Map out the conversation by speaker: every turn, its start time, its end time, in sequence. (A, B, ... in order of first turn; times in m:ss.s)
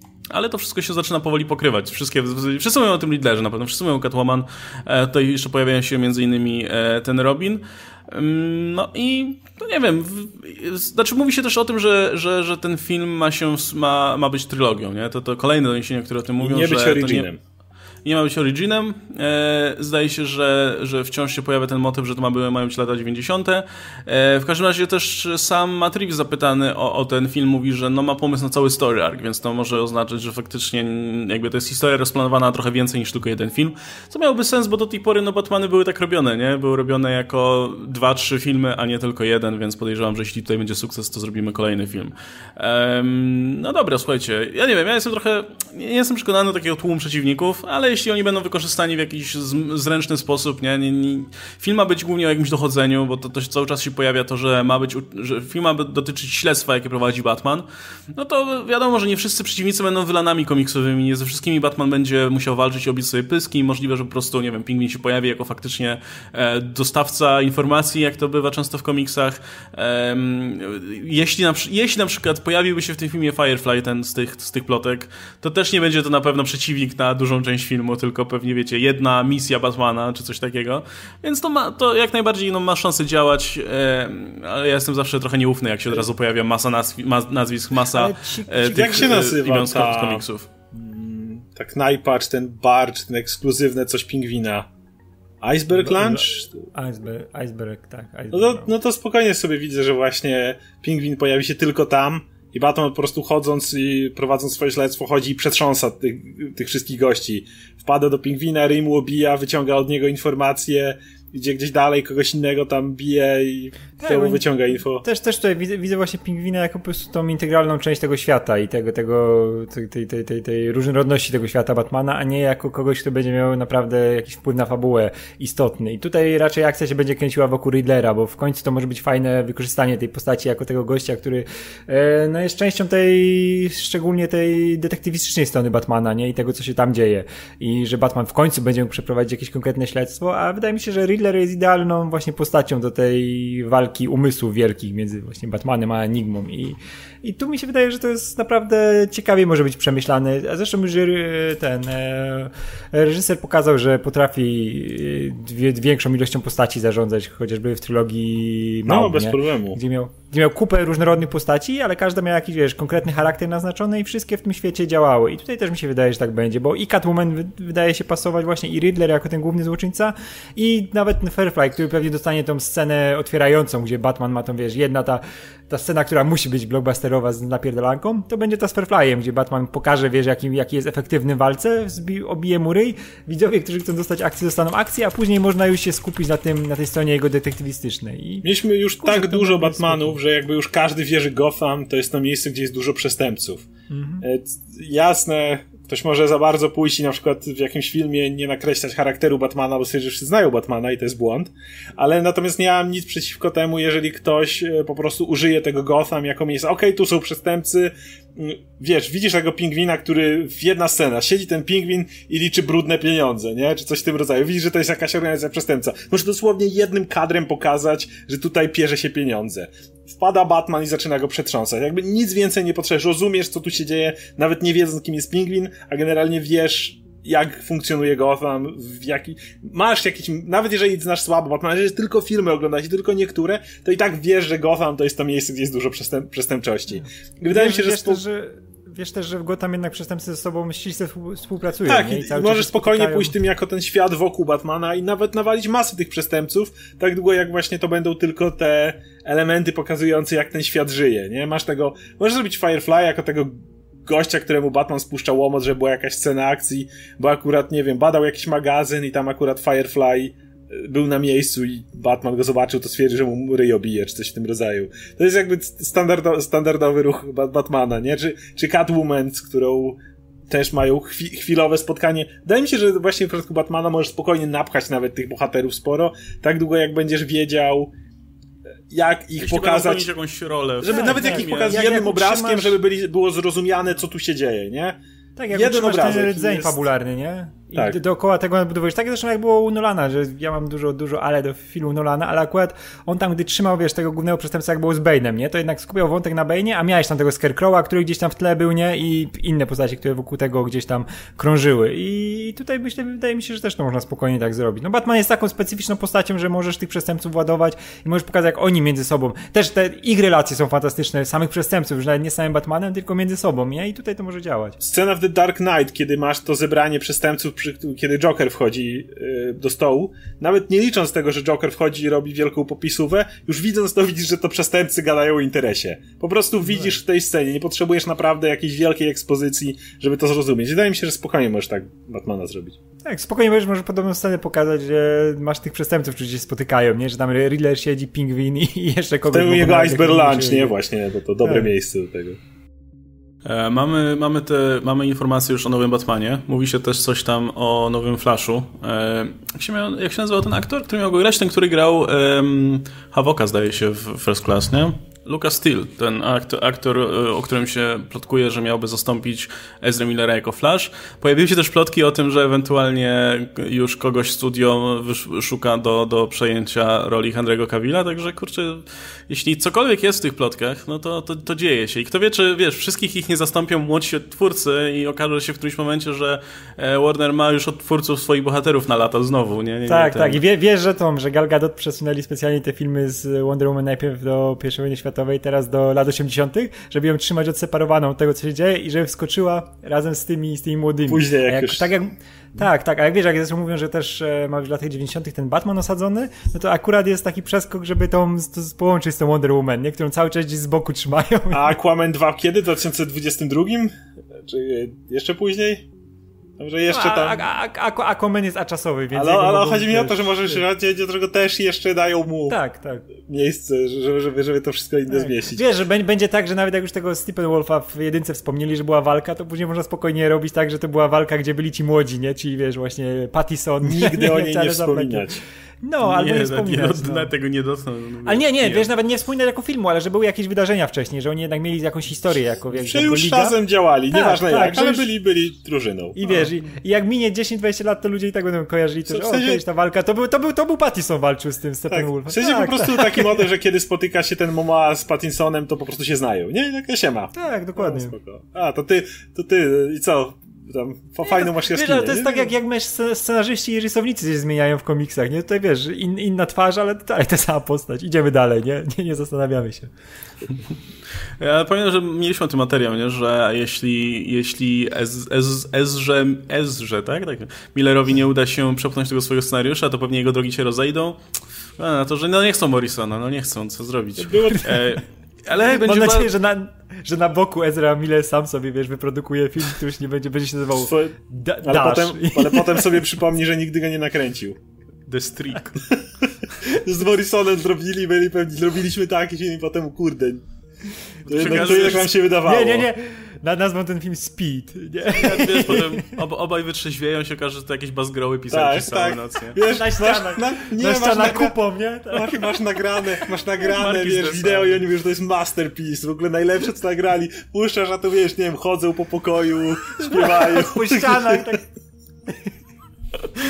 0:00.3-0:17.3 A
0:16.4-0:17.4 B
0:18.0-1:30.5 A
1:27.9-1:29.2 C
1:28.7-1:34.7 B
1:35.4-1:36.6 B
1:35.8-1:38.7 C
1:38.3-1:55.0 B
1:54.0-3:08.5 C
2:38.9-2:39.8 B
3:08.4-3:13.7 B
3:09.0-3:10.2 C
3:13.9-3:14.2 C
3:14.2-3:58.2 B
3:57.0-4:03.3 C
4:01.9-4:13.5 B
4:14.0-4:37.9 B
4:38.9-4:40.1 B
4:39.4-4:41.9 A
4:40.8-4:45.0 B
4:40.9-4:42.8 C
4:45.4-5:14.8 C
4:45.5-4:46.8 B
5:14.8-5:32.8 B
5:26.6-5:27.0 C
5:33.0-5:40.8 C
5:39.3-5:42.4 B
5:41.4-5:41.7 C
5:43.4-6:20.4 A
6:19.9-6:41.8 C
6:31.1-6:31.9 B
6:41.5-6:43.9 B
6:44.4-6:45.9 B
6:46.6-6:47.4 B
6:46.9-6:50.6 C
6:49.1-6:52.6 B
6:52.5-6:53.1 C
6:53.3-6:55.7 B
6:55.1-7:05.3 C
7:03.8-7:05.4 B
7:05.8-7:07.3 C
7:06.0-7:08.9 A
7:08.2-7:13.6 C
7:12.8-7:16.5 B
7:14.1-7:15.1 C
7:16.2-7:23.5 C
7:19.1-7:19.6 B
7:21.9-7:32.5 B
7:27.3-7:28.2 C
7:31.2-7:39.9 C
7:41.4-7:51.2 A
7:51.8-7:56.3 A
7:54.2-7:54.8 B
7:55.5-8:03.1 C
8:00.8-8:04.6 B
8:05.1-8:05.8 A
8:05.9-8:10.4 B
8:11.3-8:12.1 A
8:11.3-8:12.9 B
8:11.4-8:16.2 C
8:15.1-8:19.6 A
8:18.5-8:21.6 B
8:19.6-8:22.6 C
8:22.1-8:31.6 B
8:23.6-8:24.8 A
8:30.0-8:31.7 C